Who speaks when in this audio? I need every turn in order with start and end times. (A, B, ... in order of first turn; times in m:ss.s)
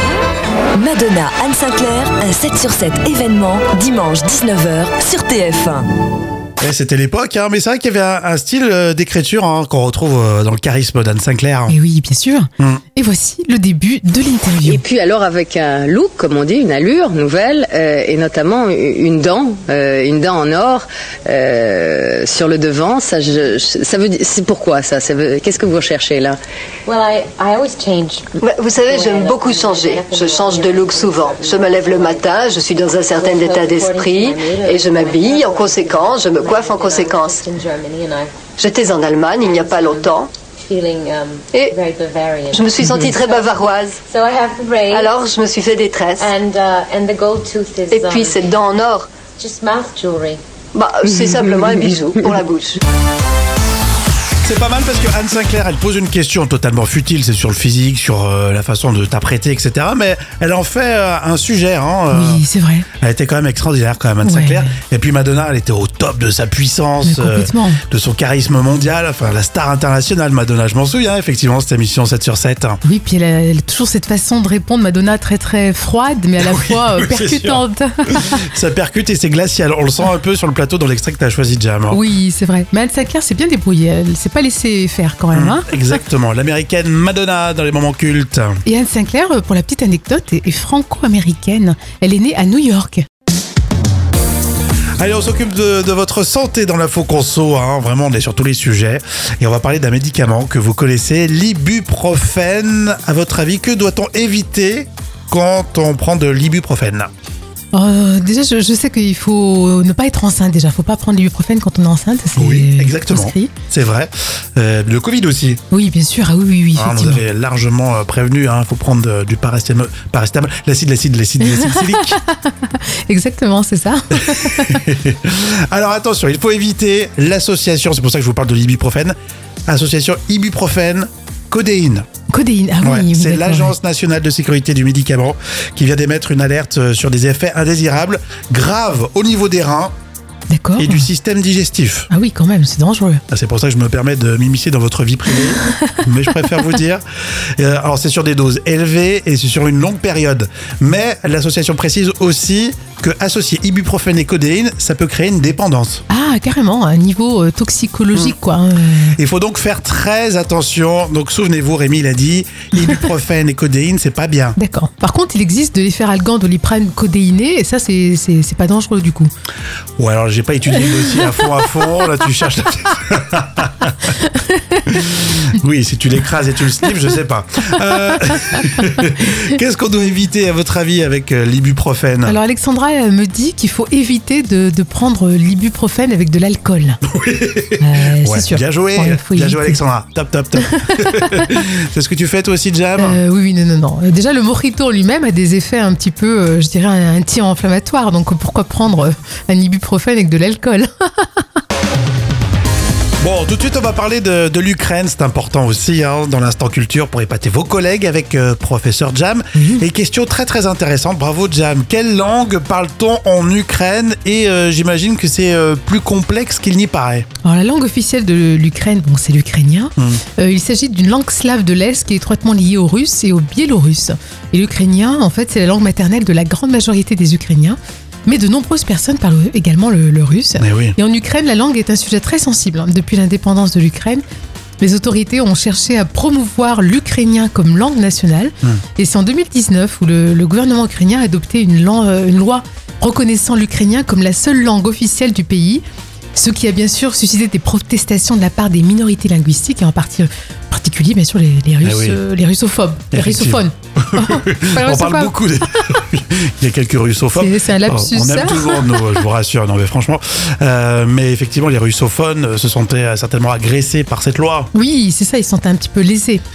0:00.8-0:05.9 A
0:06.6-0:11.8 B
0:11.7-0:14.8 C
0:14.6-0:26.4 D
0:26.9-0:28.2 E
0:28.4-0:37.4 F
0:28.8-0:38.4 E
0:38.6-0:40.3 F
0:39.4-0:45.2 E
0:42.5-0:44.0 F
0:44.9-0:46.3 F
0:46.2-0:48.4 E
0:47.9-0:49.1 F
0:49.4-0:50.4 E
0:50.7-0:52.8 F
0:54.4-1:02.4 B
1:02.1-1:02.9 C
1:03.0-1:12.8 B
1:04.2-1:04.7 C
1:07.0-1:07.8 C
1:12.8-1:18.3 C
1:16.4-1:22.0 B
1:21.9-1:26.0 C
1:25.3-1:28.6 B
1:28.6-1:33.0 C
1:35.0-1:47.1 B
1:47.7-1:53.5 C
1:52.4-1:55.6 B
1:55.7-1:57.2 C
1:56.8-2:02.2 B
2:01.4-2:04.8 C
2:04.1-2:09.1 B
2:09.7-2:12.0 B
2:12.3-2:13.7 C
2:12.8-2:19.9 B
2:20.5-2:21.1 C
2:20.8-2:22.1 B
2:22.1-2:23.2 C
2:23.3-2:27.0 B
2:27.6-2:36.0 B
2:36.1-2:39.2 C
2:39.2-2:44.6 B
2:44.6-2:49.3 C
2:50.0-2:54.1 B
2:54.4-2:54.8 C
2:54.9-3:02.4 B
3:02.2-3:07.0 C
3:07.1-3:13.2 B
3:07.8-3:09.8 C
3:10.9-3:11.2 C
3:13.0-3:21.4 C
3:23.2-3:37.3 B
3:29.6-3:29.8 C
3:37.4-3:54.2 C
3:50.6-3:51.0 B
3:54.8-4:05.8 C
4:06.4-4:15.4 C
4:11.8-4:12.2 B
4:13.1-4:24.7 B
4:17.3-4:19.0 C
4:24.7-4:26.4 C